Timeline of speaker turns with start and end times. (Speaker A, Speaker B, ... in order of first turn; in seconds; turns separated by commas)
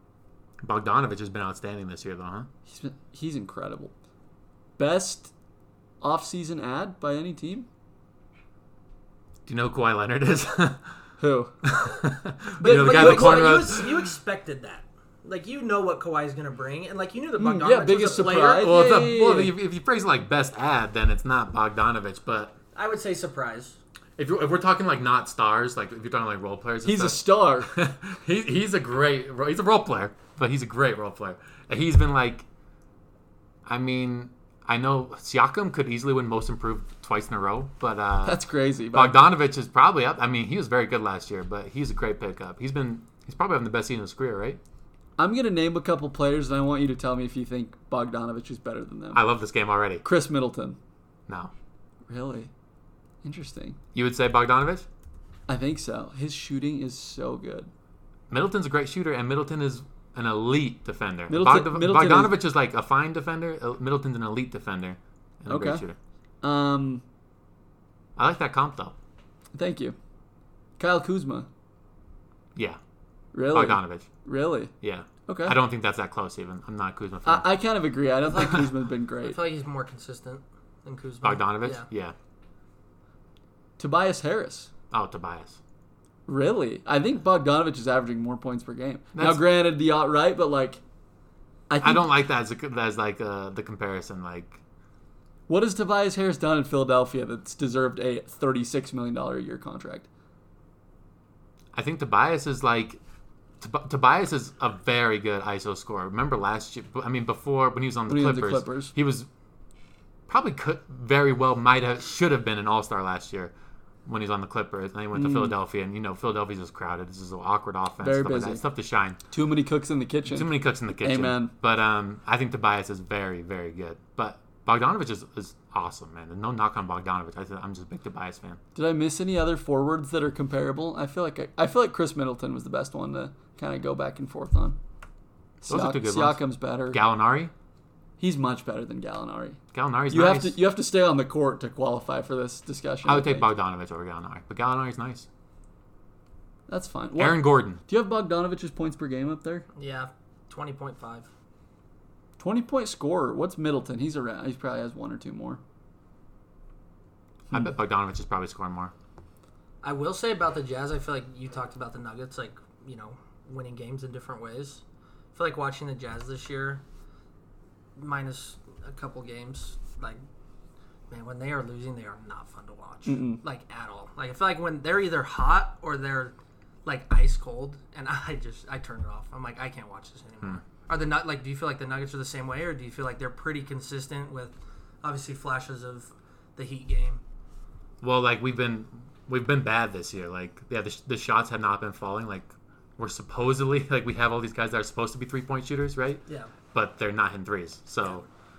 Speaker A: 0.6-2.5, Speaker B: 2.7-3.9, Speaker B: 4.8-5.3, Speaker B: 6.0-7.7, Speaker A: 9.5-10.8, Speaker B: 11.2-11.5, Speaker A: 11.7-14.1, Speaker C: 12.6-18.7, Speaker B: 12.6-13.7, Speaker B: 17.4-19.5, Speaker A: 18.4-22.6, Speaker C: 22.8-23.8, Speaker A: 24.2-32.5, Speaker B: 26.8-27.7, Speaker A: 33.7-38.4, Speaker B: 38.2-39.2, Speaker A: 38.9-44.6, Speaker B: 45.2-49.2, Speaker A: 49.1-50.0, Speaker B: 50.0-50.8, Speaker A: 51.3-51.5, Speaker B: 52.1-52.5, Speaker B: 53.2-53.8, Speaker A: 53.9-54.9, Speaker B: 55.5-57.7, Speaker A: 58.3-66.0, Speaker B: 61.3-62.4, Speaker B: 65.5-65.8, Speaker B: 66.4-67.0, Speaker A: 68.2-69.0, Speaker B: 69.5-70.0, Speaker B: 70.8-71.5, Speaker B: 73.3-74.7, Speaker A: 73.5-74.1, Speaker A: 74.8-77.5, Speaker B: 75.2-75.6, Speaker B: 77.2-79.4, Speaker C: 78.2-81.9, Speaker A: 81.2-82.2, Speaker B: 83.8-84.7, Speaker A: 84.9-85.6, Speaker B: 86.3-90.8, Speaker A: 89.1-89.5, Speaker B: 91.7-92.1, Speaker A: 91.8-94.6, Speaker B: 95.5-100.1, Speaker A: 101.7-103.0, Speaker A: 103.6-109.3, Speaker B: 108.1-108.9, Speaker A: 110.3-113.5, Speaker A: 114.0-119.2, Speaker B: 115.1-115.5, Speaker B: 118.0-118.6, Speaker B: 119.3-121.5, Speaker A: 120.3-128.6, Speaker B: 128.8-134.8, Speaker B: 135.6-137.0, Speaker A: 135.7-137.5, Speaker B: 138.2-143.5, Speaker A: 139.7-140.6, Speaker A: 143.0-145.3, Speaker B: 146.7-149.7, Speaker A: 147.2-147.8, Speaker C: 149.8-151.3, Speaker B: 152.4-155.6, Speaker A: 157.5-158.9, Speaker C: 159.8-164.8, Speaker C: 165.3-166.8, Speaker C: 168.0-170.2, Speaker C: 171.1-176.3, Speaker B: 173.1-173.4, Speaker C: 176.8-187.2, Speaker A: 188.0-198.3, Speaker C: 196.3-196.5